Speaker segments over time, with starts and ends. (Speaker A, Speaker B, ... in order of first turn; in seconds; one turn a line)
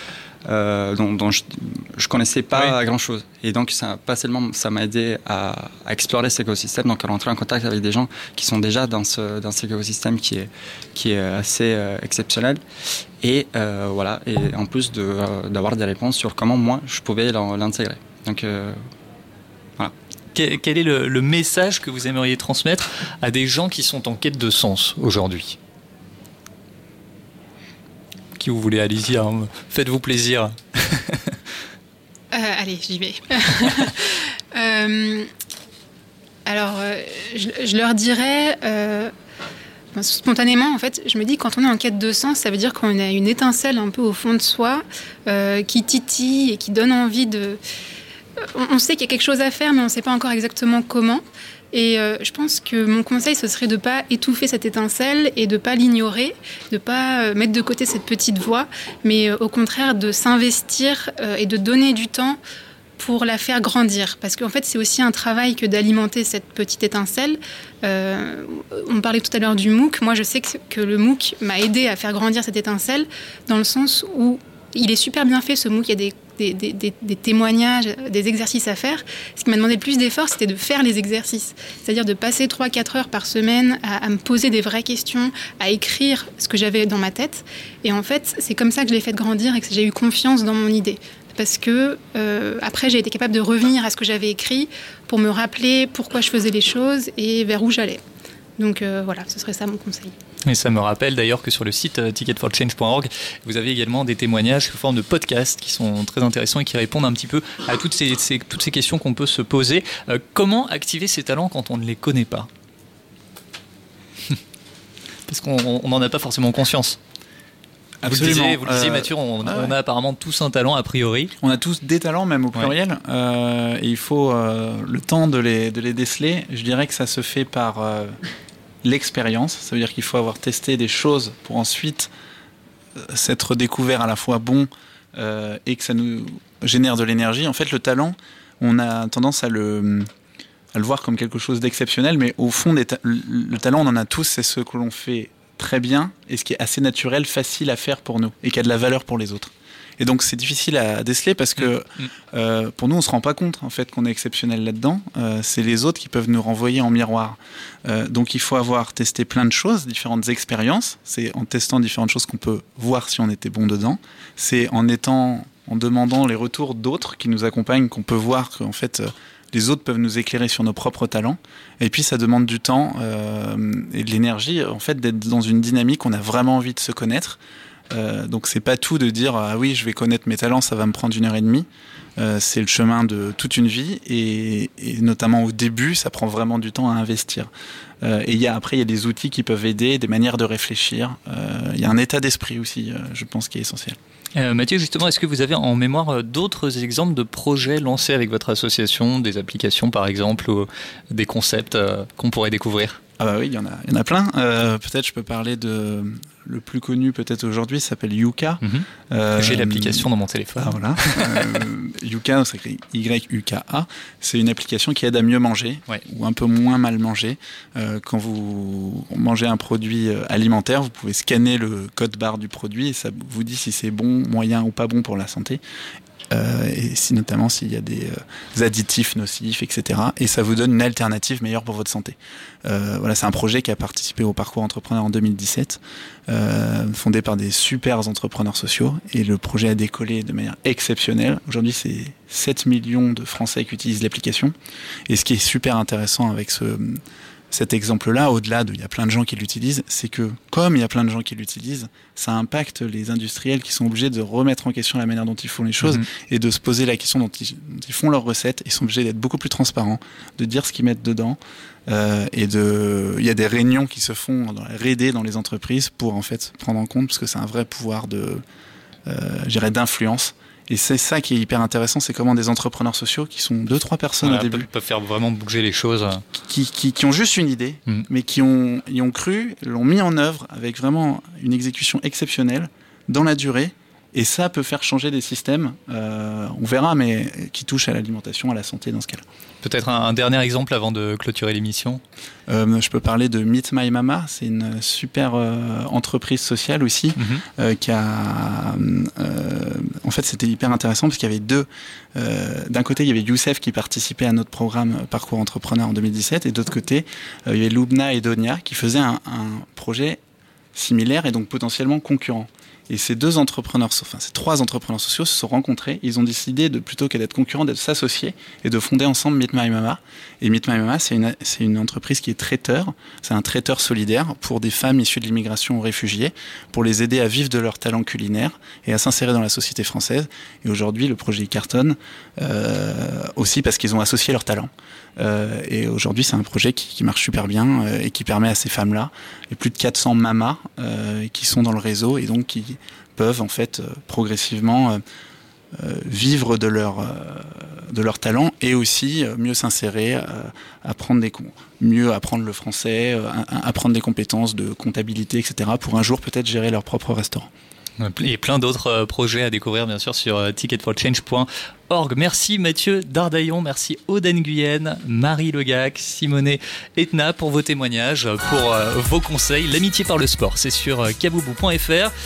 Speaker A: 0.5-12.6
Speaker A: 13.2-18.8
Speaker B: 20.3-25.6
Speaker B: 28.4-31.4
Speaker C: 32.3-35.3
Speaker C: 36.5-39.1
Speaker C: 39.9-47.6
Speaker C: 48.5-62.4
Speaker C: 63.0-98.0
Speaker C: 98.6-100.1
Speaker B: 100.5-112.5
Speaker B: 115.3-117.0
Speaker D: 118.0-119.7
Speaker B: 118.0-121.3
Speaker D: 121.4-128.2
Speaker D: 128.8-132.1
Speaker D: 133.0-140.1
Speaker D: 140.7-177.4
Speaker B: 151.6-152.1
Speaker D: 177.9-187.5
Speaker D: 188.0-194.0
Speaker B: 194.3-203.0
Speaker D: 203.2-210.1
Speaker B: 208.6-211.4
Speaker D: 210.6-225.6
Speaker D: 226.3-244.5
Speaker D: 245.1-268.4
Speaker B: 255.8-256.1
Speaker D: 269.1-274.7
Speaker B: 274.2-276.2
Speaker D: 276.4-289.2
Speaker B: 289.6-292.0
Speaker D: 292.5-310.2
Speaker B: 297.2-297.4
Speaker D: 310.7-345.0
Speaker D: 345.7-357.5
Speaker B: 358.0-372.1